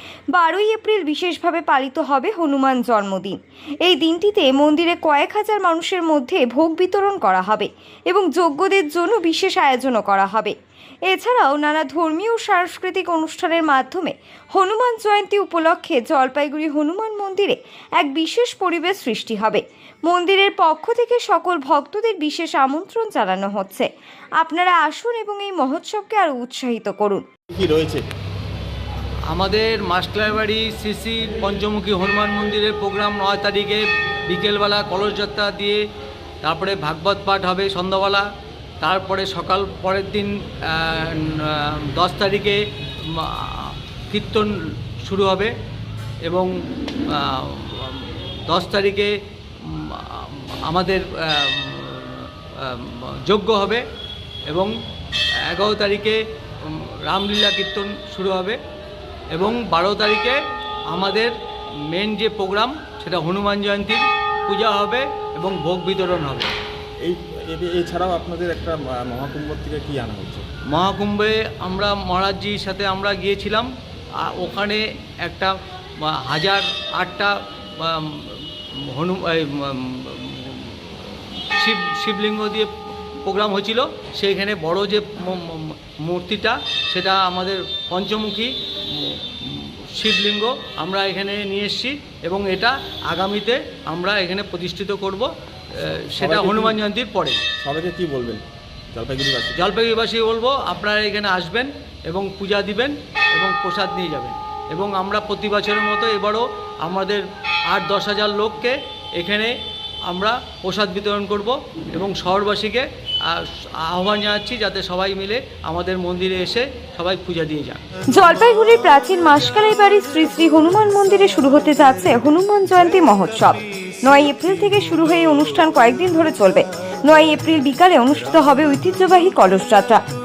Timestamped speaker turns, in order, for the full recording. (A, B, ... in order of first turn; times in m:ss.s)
0:00.3-0:10.5 A
0:11.1-0:23.9 A
0:24.4-0:27.2 A
0:27.5-0:28.0 B
0:29.3-0:35.8 C
0:36.4-0:38.3 C
0:38.8-0:45.5 C
0:47.1-0:53.8 C
0:54.5-0:54.7 C
0:55.4-0:58.6 C
0:59.3-1:00.4 C
1:00.9-1:01.3 C
1:01.9-1:06.5 C
1:07.0-1:10.4 B
1:10.7-1:22.7 C
1:23.2-1:37.4 C
1:36.2-1:36.8 B
1:37.6-1:39.6 B
1:39.6-1:49.6 C
1:50.1-1:57.8 C
1:58.1-2:10.0 A